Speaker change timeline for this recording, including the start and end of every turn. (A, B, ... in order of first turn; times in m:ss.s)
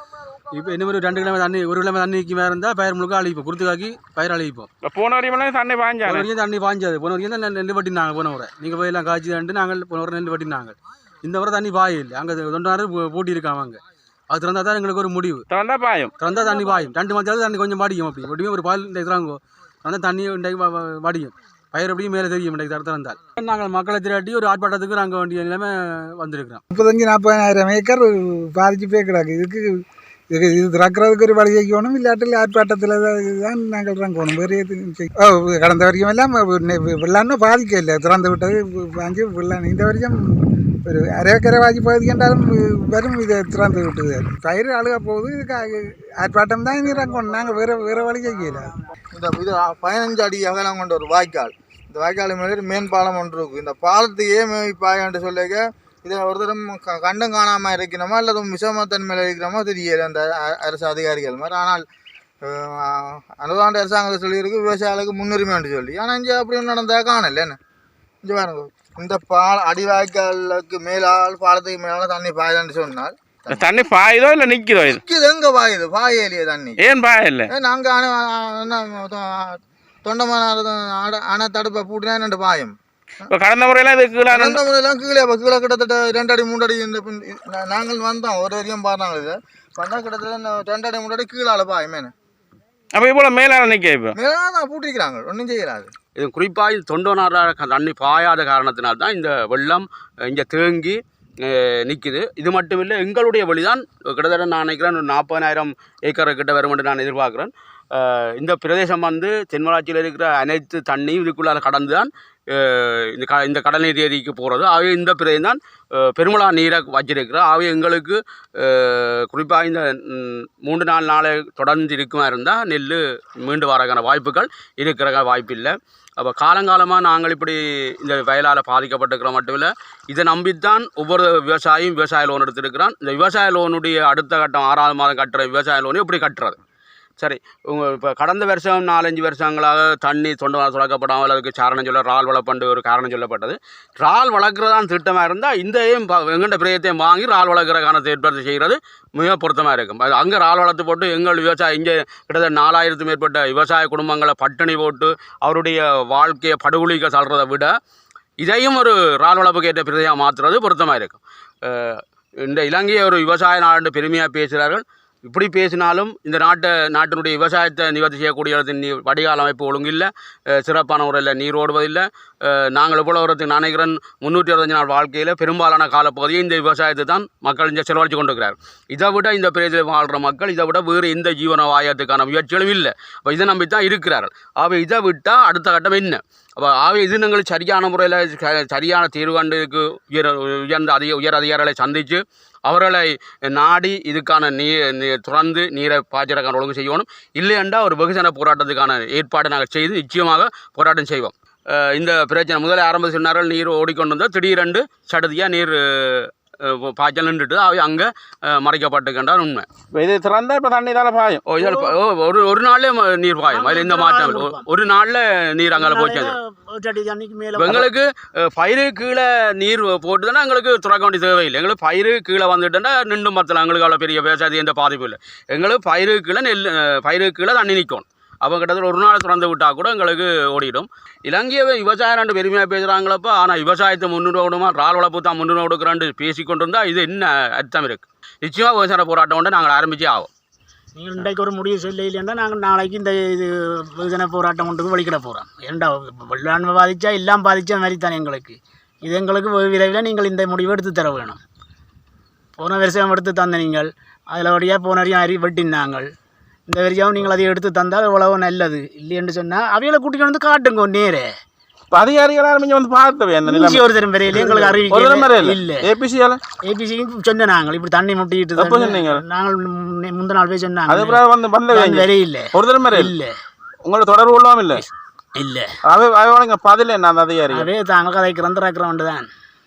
0:00.5-0:04.7 A
0:04.8-0:06.3 B
0:06.0-0:15.4 A
0:15.5-0:16.1 B
0:16.2-0:26.6 A
0:26.7-0:29.7 C
0:30.3-0:40.2 C
0:40.9-0:48.7 C
0:49.1-1:01.8 D
1:02.4-1:07.6 D
1:08.2-1:13.7 D
1:13.5-1:15.0 B
1:14.8-1:16.8 D
1:16.8-1:17.5 B
1:17.5-1:22.8 D
1:23.3-1:24.6 B
1:24.3-1:32.1 D
1:32.9-1:34.2 B
1:34.2-1:35.9 D
1:36.2-2:16.6 E
2:17.2-2:37.7 E
2:38.4-3:29.7 E
3:29.9-3:31.5 B
3:31.5-3:36.4 E
3:33.4-3:34.7 F
3:35.7-3:37.9 F
3:37.6-4:00.3 E
4:00.9-4:11.4 F
4:12.6-4:16.1 F
4:16.7-4:21.3 F
4:21.9-4:26.4 B
4:23.5-4:25.9 F
4:26.6-4:31.2 F
4:28.6-4:29.2 B
4:30.9-4:33.1 B
4:31.7-4:33.3 F
4:33.8-4:34.8 B
4:35.4-4:35.7 F
4:35.9-4:37.7 B
4:37.5-4:39.3 F